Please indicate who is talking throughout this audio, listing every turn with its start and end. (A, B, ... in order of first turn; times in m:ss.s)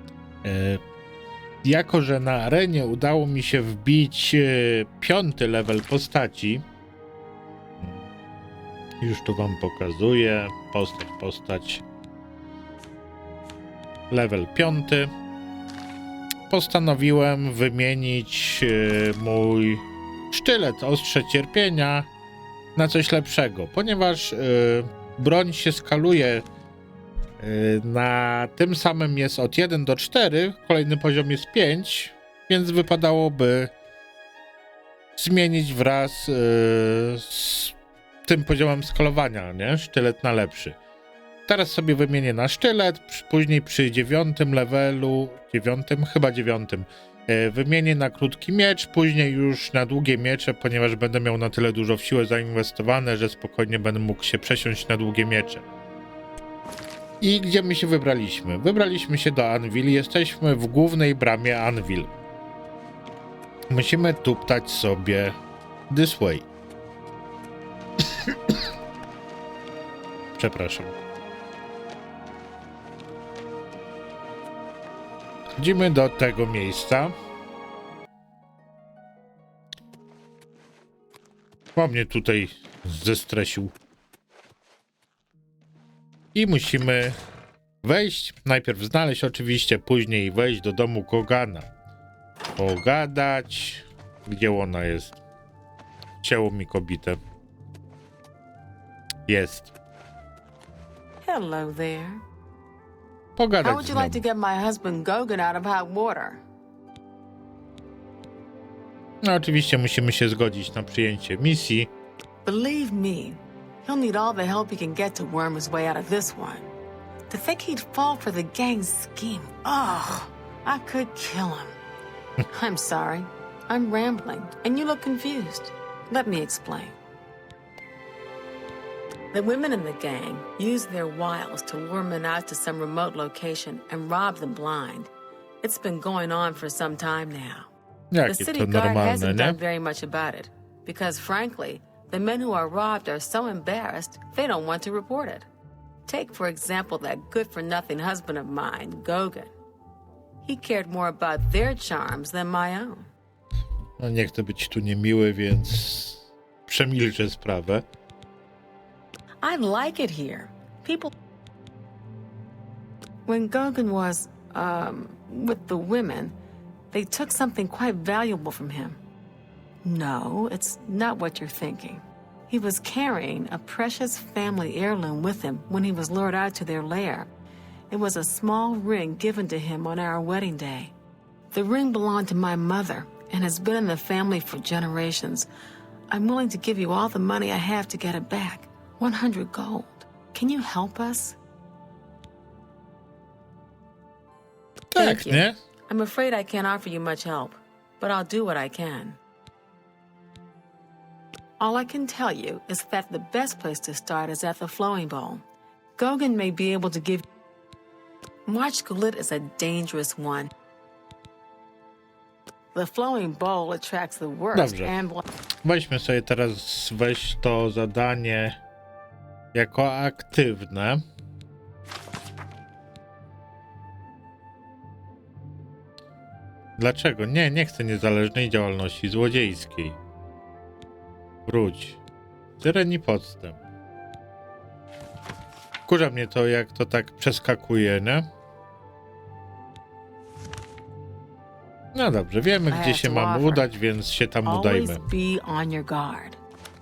0:00.4-0:00.8 A
0:01.6-0:06.6 A
0:07.8-0:08.0 A
0:09.0-0:11.8 A
0:14.1-0:15.1 A
0:16.5-0:22.1 A
0:22.8-0:26.4 A
0:27.4-0:33.7 A
0:35.2-0:40.8 A
0:41.5-0:55.6 A
0:57.2-1:02.1 A
1:03.7-1:05.4 A
1:05.9-1:06.5 A
1:10.4-1:10.9 A
1:15.6-1:17.1 A
1:21.8-1:23.7 A
1:26.3-1:27.2 A
1:27.8-1:31.7 A
1:32.6-1:35.1 A
1:36.2-1:37.2 A
1:39.3-1:39.7 A
1:41.2-1:42.2 B
1:43.4-1:44.2 A
1:43.6-1:46.4 B
1:49.2-1:51.9 A
1:52.4-1:56.7 B
1:57.3-2:01.8 B
2:02.5-2:07.0 B
2:09.3-2:15.1 B
2:15.6-2:17.7 B
2:18.1-2:19.6 A
2:18.2-2:25.5 B
2:26.1-2:29.5 B
2:30.4-2:33.1 B
2:34.0-2:37.8 A
2:39.4-2:41.1 B
2:43.3-2:46.3 B
2:46.9-2:49.0 B
2:49.8-2:57.3 B
2:57.9-3:00.9 B
3:01.5-3:05.5 B
3:06.1-3:11.4 B
3:14.9-3:15.6 A
3:15.0-3:19.2 B
3:21.6-3:25.4 B
3:26.0-3:27.2 B
3:28.5-3:30.5 B
3:32.7-3:35.2 B
3:34.5-3:35.0 A
3:35.6-3:38.6 A
3:39.5-3:41.0 A
3:46.8-3:50.0 A
3:51.5-3:52.0 A
3:52.6-3:53.6 A
3:55.9-3:58.2 A
4:01.9-4:05.0 A
4:02.7-4:03.7 B
4:04.4-4:06.4 B